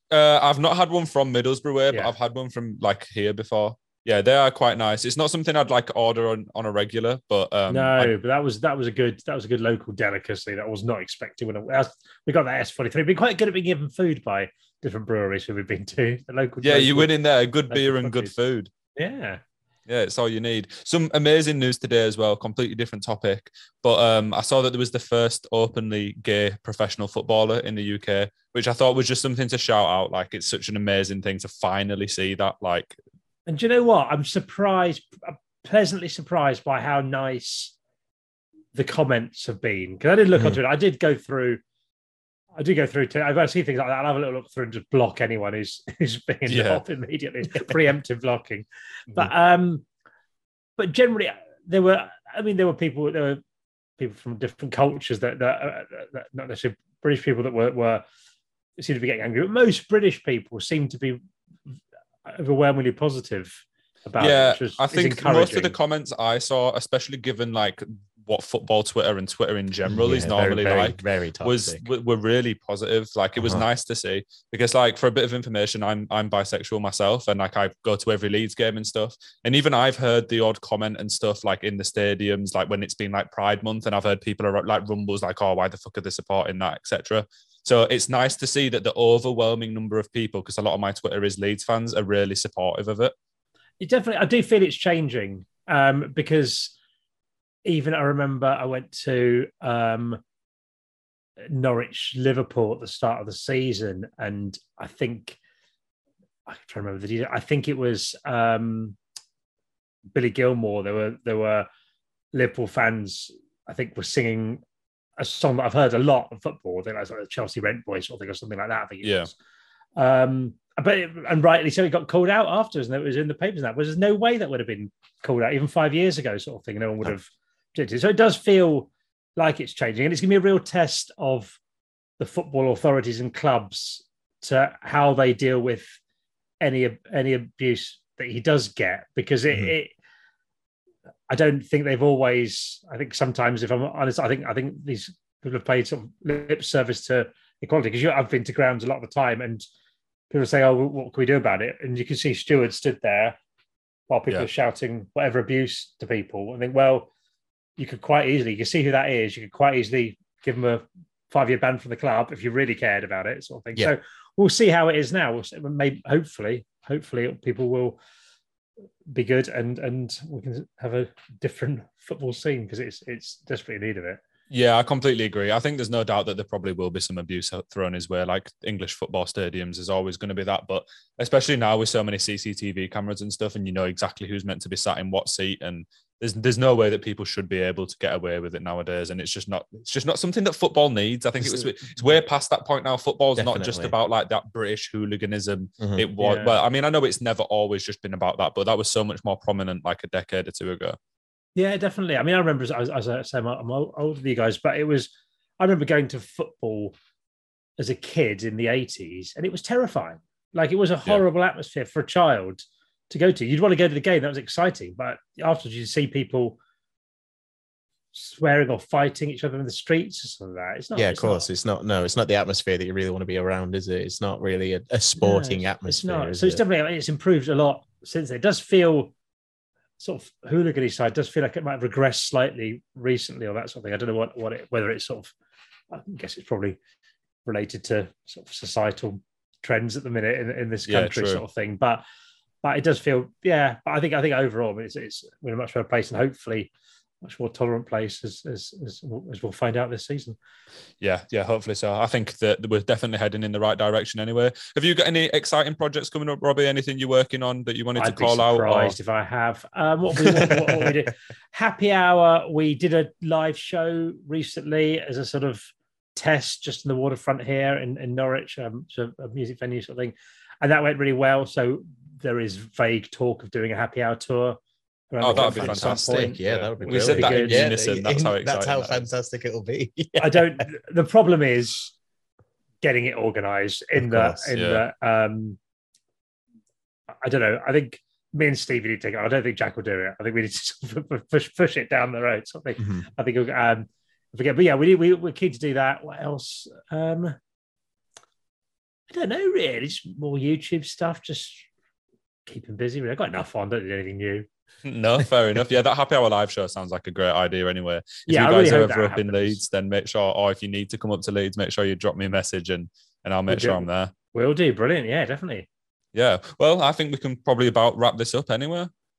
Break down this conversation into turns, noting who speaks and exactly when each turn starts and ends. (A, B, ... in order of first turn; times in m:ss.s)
0:00.1-0:08.1 A
0:07.7-0:17.1 B
0:16.6-0:18.7 A
0:17.7-0:18.3 B
0:18.9-0:19.4 B
0:19.9-0:32.9 A
0:33.5-0:37.7 B
0:38.7-0:41.6 B
0:42.6-0:49.8 B
0:46.5-0:46.8 A
0:50.8-0:53.4 B
0:54.0-0:58.0 B
0:58.8-1:01.7 B
1:02.2-1:05.7 B
1:04.2-1:33.1 A
1:09.9-1:11.9 C
1:13.4-1:13.6 C
1:33.8-1:36.7 B
1:37.6-1:40.2 B
1:41.5-1:45.4 B
1:46.5-1:49.0 B
1:50.1-1:51.7 B
1:52.3-1:54.6 B
1:55.2-1:59.3 B
1:59.0-1:59.3 A
2:00.0-2:11.6 B
2:12.2-2:15.8 B
2:16.6-2:19.9 B
2:21.3-2:29.6 B
2:30.3-2:33.4 B
2:34.1-2:37.1 B
2:37.8-2:48.0 B
2:49.1-2:54.2 B
2:54.5-3:21.0 A
3:13.4-3:13.9 C
3:15.8-3:16.0 C
3:16.2-3:16.6 B
3:21.6-3:26.9 B
3:27.8-3:36.6 B
3:38.1-3:41.4 B
3:40.9-3:46.6 C
3:45.2-3:49.1 B
3:50.0-3:55.3 B
3:55.9-3:56.8 B
3:57.4-4:02.0 B
4:00.9-4:01.4 A
4:02.6-4:06.7 B
4:07.2-4:10.4 B
4:11.0-4:18.9 A
4:18.0-4:25.6 B
4:26.1-4:34.6 B
4:35.1-4:37.8 B
4:35.2-4:39.0 A
4:35.3-4:40.6 C
4:40.2-4:41.9 B
4:42.8-4:45.6 B
4:44.0-4:44.5 C
4:44.5-4:44.8 A
4:47.2-4:57.3 B
4:52.8-4:53.0 C
4:59.1-5:01.7 B
5:02.4-5:04.5 B
5:04.8-5:14.1 A
5:08.3-5:09.6 B
5:13.5-5:15.7 B
5:16.1-5:18.9 A